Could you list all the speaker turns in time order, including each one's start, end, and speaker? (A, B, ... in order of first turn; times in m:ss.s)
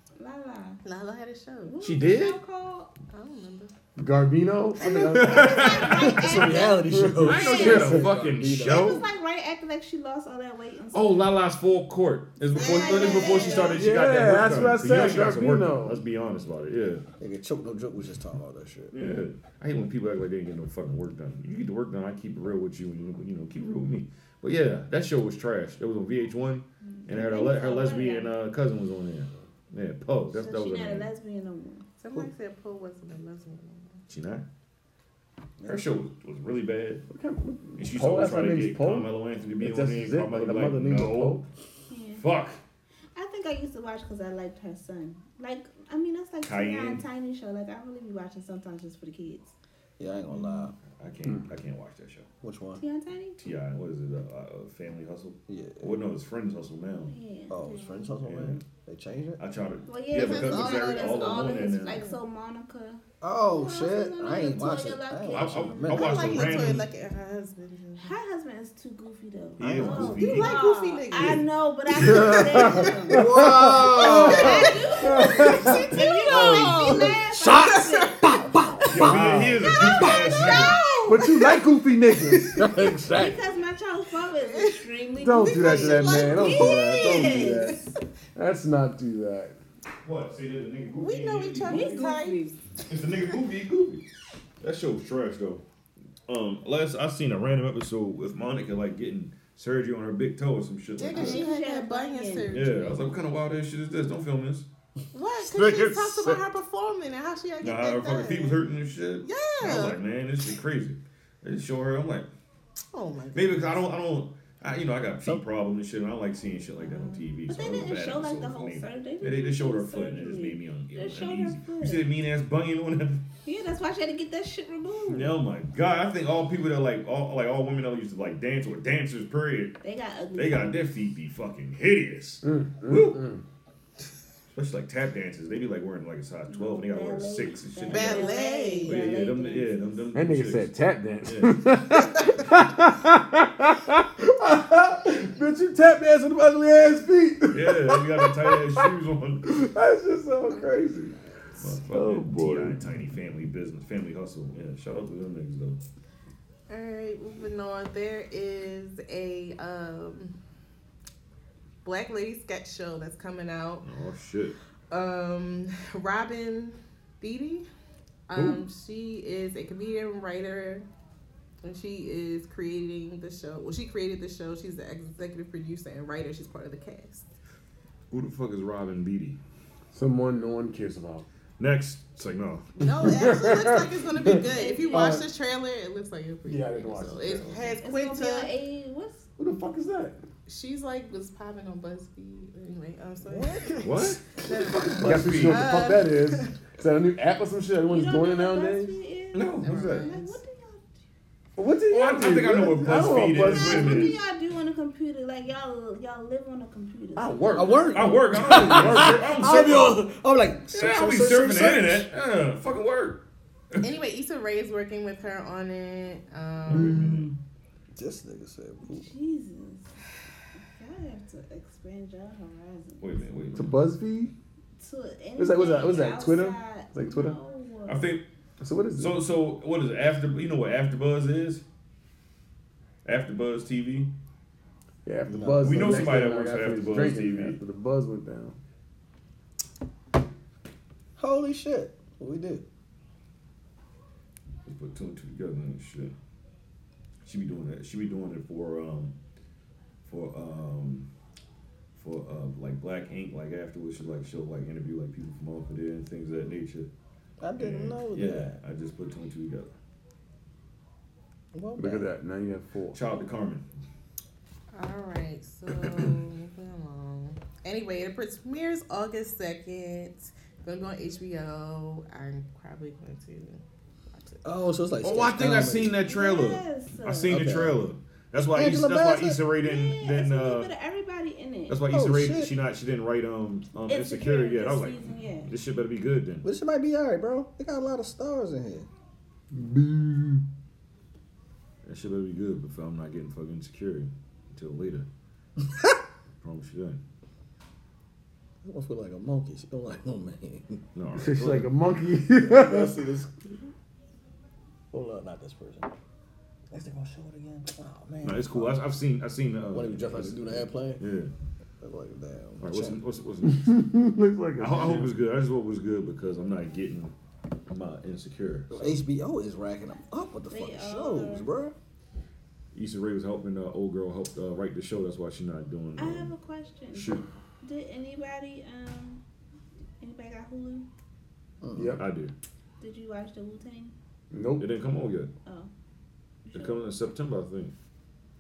0:00.2-0:00.8 A
0:00.8-0:01.8 B
0:01.7-0:02.9 A
0:01.8-0:02.4 C
0:03.1-0:03.7 B
0:04.0-0:05.5 D
0:04.8-0:08.0 A
0:04.8-0:09.0 E
0:05.1-0:06.5 C
0:06.9-0:08.1 D
0:07.2-0:09.0 C
0:08.6-0:11.4 A
0:10.9-0:17.0 C
0:12.5-0:13.9 A
0:12.6-0:13.8 B
0:13.8-0:16.0 D
0:17.2-0:19.0 E
0:18.9-0:31.1 C
0:26.8-0:28.3 A
0:30.3-0:31.9 A
0:32.0-0:34.0 B
0:34.1-0:34.4 C
0:35.6-0:35.9 E
0:35.6-0:37.1 C
0:37.1-0:41.4 D
0:37.8-0:41.4 C
0:41.9-0:42.3 A
0:42.2-0:42.6 C
0:43.2-0:49.6 A
0:46.4-0:47.0 C
0:50.0-0:50.8 E
0:50.3-0:50.7 A
0:50.8-0:52.3 C
0:52.4-0:52.8 E
0:52.8-0:53.4 A
0:53.4-0:57.2 C
0:55.5-0:56.0 E
0:57.1-0:58.1 A
0:57.5-0:59.4 E
0:58.2-0:58.7 C
0:59.4-1:02.1 C
0:59.9-1:06.0 A
1:00.1-1:02.2 B
1:03.2-1:06.8 E
1:05.3-1:06.9 C
1:05.9-1:08.1 B
1:08.0-1:13.2 A
1:09.6-1:10.6 C
1:09.6-1:09.9 E
1:10.2-1:11.4 B
1:12.0-1:15.8 D
1:13.1-1:14.8 E
1:14.0-1:18.4 A
1:14.2-1:18.1 B
1:16.3-1:17.7 E
1:18.3-1:19.8 D
1:18.9-1:20.8 C
1:19.7-1:21.4 B
1:19.8-1:21.1 A
1:21.1-1:22.7 D
1:22.6-1:23.4 E
1:23.1-1:27.8 A
1:24.5-1:24.8 B
1:25.2-1:29.6 D
1:25.5-1:27.7 B
1:30.0-1:32.1 C
1:31.0-1:32.5 B
1:31.6-1:32.6 A
1:32.9-1:34.0 C
1:34.6-1:35.6 C
1:36.3-1:41.5 C
1:41.0-1:43.0 B
1:41.1-1:42.6 A
1:42.5-1:44.7 C
1:45.1-1:48.6 B
1:45.6-1:46.4 C
1:47.6-1:52.3 C
1:49.2-1:50.0 B
1:52.9-1:53.9 B
1:53.3-2:03.2 C
1:56.8-2:02.1 A
2:03.4-2:05.4 A
2:05.1-2:09.8 C
2:09.8-2:10.9 A
2:10.3-2:13.2 C
2:12.4-2:13.4 D
2:14.5-2:20.7 C
2:16.5-2:20.1 A
2:17.9-2:19.0 B
2:20.1-2:28.9 D
2:21.2-2:21.6 C
2:27.5-2:29.5 C
2:29.5-2:31.2 D
2:31.6-2:35.8 C
2:31.9-2:32.8 D
2:36.7-2:40.4 B
2:41.8-2:43.9 B
2:43.8-2:44.6 C
2:44.9-2:47.7 B
2:48.3-2:50.9 B
2:51.6-2:57.3 B
2:58.1-2:59.4 C
2:59.9-3:01.3 D
3:01.6-3:02.7 C
3:02.8-3:08.5 B
3:03.0-3:05.2 D
3:04.3-3:05.2 A
3:06.4-3:07.6 D
3:07.7-3:09.3 A
3:09.4-3:10.2 D
3:10.5-3:16.5 B
3:13.3-3:13.7 E
3:13.8-3:15.8 C
3:15.0-3:19.0 D
3:17.9-3:20.9 A
3:19.3-3:20.1 C
3:19.6-3:20.4 B
3:21.6-3:24.2 D
3:21.9-3:24.2 C
3:23.4-3:27.8 A
3:27.2-3:29.6 D
3:27.5-3:32.1 E
3:27.9-3:30.0 C
3:30.7-3:33.2 C
3:33.8-3:37.0 B
3:36.7-3:37.3 C
3:36.7-3:37.3 E
3:38.0-3:39.1 E
3:38.9-3:39.9 A
3:40.8-3:43.2 A
3:43.0-3:43.8 C
3:43.6-3:44.3 D
3:44.8-3:48.2 A
3:45.4-3:47.4 D
3:47.9-3:48.2 C
3:48.6-3:49.2 D
3:49.0-3:51.6 C
3:53.0-3:54.1 C
3:55.0-3:58.6 D
3:55.3-3:56.2 E
3:55.6-3:57.6 C
4:01.2-4:02.6 E
4:04.6-4:06.1 C
4:07.2-4:09.2 C
4:10.0-4:11.1 C
4:11.9-4:16.9 C
4:17.4-4:18.6 E
4:17.6-4:19.7 C
4:21.5-4:22.1 E
4:21.8-4:23.0 D
4:22.9-4:23.7 C
4:24.7-4:34.4 B
4:34.4-4:36.0 E
4:35.0-4:40.7 C
4:36.0-4:37.5 A
4:37.3-4:37.8 E
4:38.5-4:39.4 E
4:39.6-4:41.8 A
4:41.7-4:46.4 C
4:41.9-4:42.6 E
4:43.9-4:45.5 A
4:46.4-4:48.9 E
4:49.5-4:50.4 D
4:51.8-4:55.1 C
4:56.4-4:57.0 C
4:58.6-5:00.8 E
5:01.0-5:01.7 C
5:01.2-5:03.0 D
5:02.4-5:03.4 E
5:04.9-5:05.9 E
5:06.7-5:08.9 E
5:08.2-5:11.3 C
5:09.7-5:11.1 E
5:11.8-5:13.0 E
5:12.6-5:13.7 C
5:13.5-5:15.1 D
5:14.6-5:17.1 C
5:17.7-5:19.0 C
5:18.7-5:21.8 E
5:20.5-5:21.5 A
5:22.7-5:26.3 C
5:26.0-5:29.2 A
5:26.9-5:27.2 C
5:30.0-5:30.9 A
5:31.6-5:32.0 E
5:31.8-5:32.0 D
5:32.0-5:32.3 C
5:32.8-5:33.9 A
5:34.3-5:34.7 D
5:34.6-5:35.3 C
5:35.4-5:35.7 A
5:36.4-5:36.8 A
5:36.5-5:37.7 C